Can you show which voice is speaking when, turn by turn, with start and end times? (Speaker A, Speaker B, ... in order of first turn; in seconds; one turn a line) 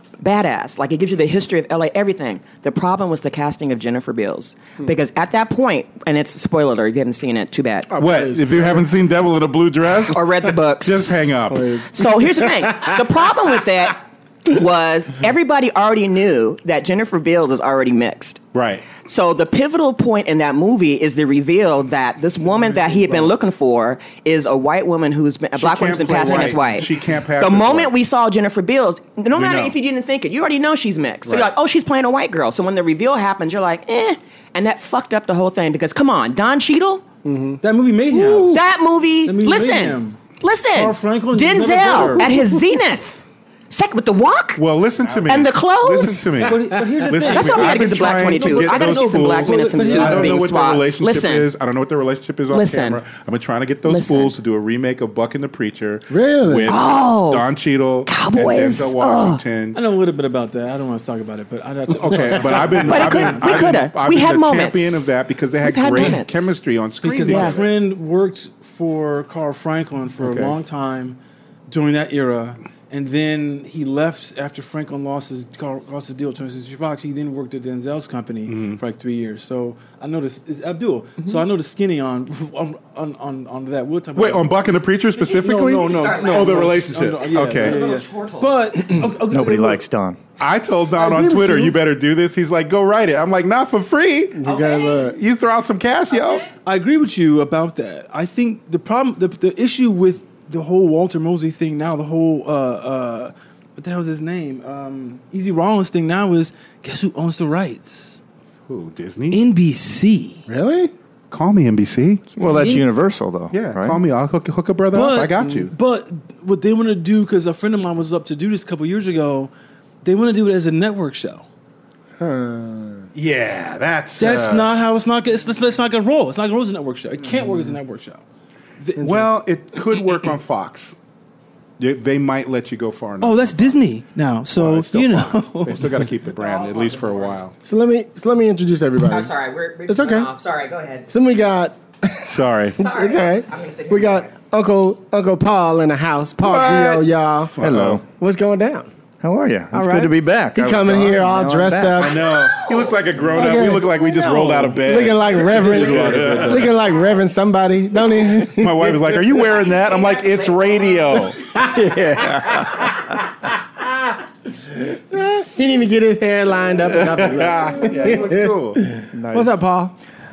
Speaker A: 0.2-7.9
Speaker B: 7.9-10.2
Speaker C: 8.0-8.8
Speaker A: 10.1-11.4
Speaker B: 10.8-11.8
Speaker C: 11.5-12.8
Speaker A: 11.9-18.4
Speaker B: 18.5-18.9
Speaker A: 19.0-37.0
Speaker B: 25.6-27.9
Speaker B: 29.3-29.8
Speaker B: 31.2-31.5
Speaker C: 37.2-37.6
Speaker D: 37.6-38.6
Speaker B: 38.1-38.6
Speaker A: 38.5-44.6
Speaker D: 39.2-40.2
Speaker D: 40.8-42.3
Speaker B: 44.6-59.8
Speaker A: 45.2-46.5
Speaker D: 46.4-50.5
Speaker A: 47.3-51.5
Speaker A: 52.5-53.0
Speaker A: 53.9-54.3
Speaker C: 56.1-56.7
Speaker A: 56.7-57.4
Speaker A: 58.0-59.4
Speaker D: 59.7-63.7
Speaker B: 62.0-67.7
Speaker A: 62.8-65.1
Speaker A: 65.6-66.5
Speaker D: 67.0-84.5
Speaker A: 67.3-67.6
Speaker B: 70.2-70.5
Speaker B: 78.5-78.8
Speaker B: 84.2-87.8
Speaker D: 85.2-89.8
Speaker A: 85.7-86.7
Speaker A: 87.5-88.6
Speaker E: 89.2-90.2
Speaker B: 90.4-96.4
Speaker D: 91.0-91.8
Speaker C: 94.3-95.2
Speaker A: 94.5-95.0
Speaker A: 96.1-96.4
Speaker D: 96.6-108.2
Speaker B: 108.7-109.4
Speaker D: 109.3-110.5
Speaker C: 110.5-110.9
Speaker B: 111.3-112.3
Speaker E: 112.4-114.0
Speaker D: 112.4-112.8
Speaker B: 113.5-115.7
Speaker D: 114.9-119.5
Speaker D: 120.0-121.5
Speaker C: 122.2-123.1
Speaker B: 123.1-124.7
Speaker D: 124.2-128.2
Speaker D: 128.8-129.3
Speaker B: 129.0-130.9
Speaker B: 131.8-133.8
Speaker D: 133.2-136.1
Speaker B: 134.5-137.5
Speaker A: 136.2-137.4
Speaker C: 137.6-139.3
Speaker A: 139.0-141.1
Speaker C: 139.9-140.3
Speaker C: 141.1-148.9
Speaker B: 142.3-142.8
Speaker A: 142.8-144.3
Speaker B: 146.4-148.0
Speaker E: 147.6-148.0
Speaker E: 149.2-152.1
Speaker C: 149.7-152.2
Speaker B: 151.9-156.8
Speaker A: 152.2-152.8
Speaker C: 153.3-154.0
Speaker D: 153.5-156.7
Speaker C: 154.7-159.2
Speaker E: 156.2-156.6
Speaker B: 158.5-161.5
Speaker A: 159.6-161.0
Speaker E: 161.6-163.2
Speaker C: 161.8-162.7
Speaker C: 164.6-169.9
Speaker B: 166.9-168.9
Speaker E: 169.1-169.5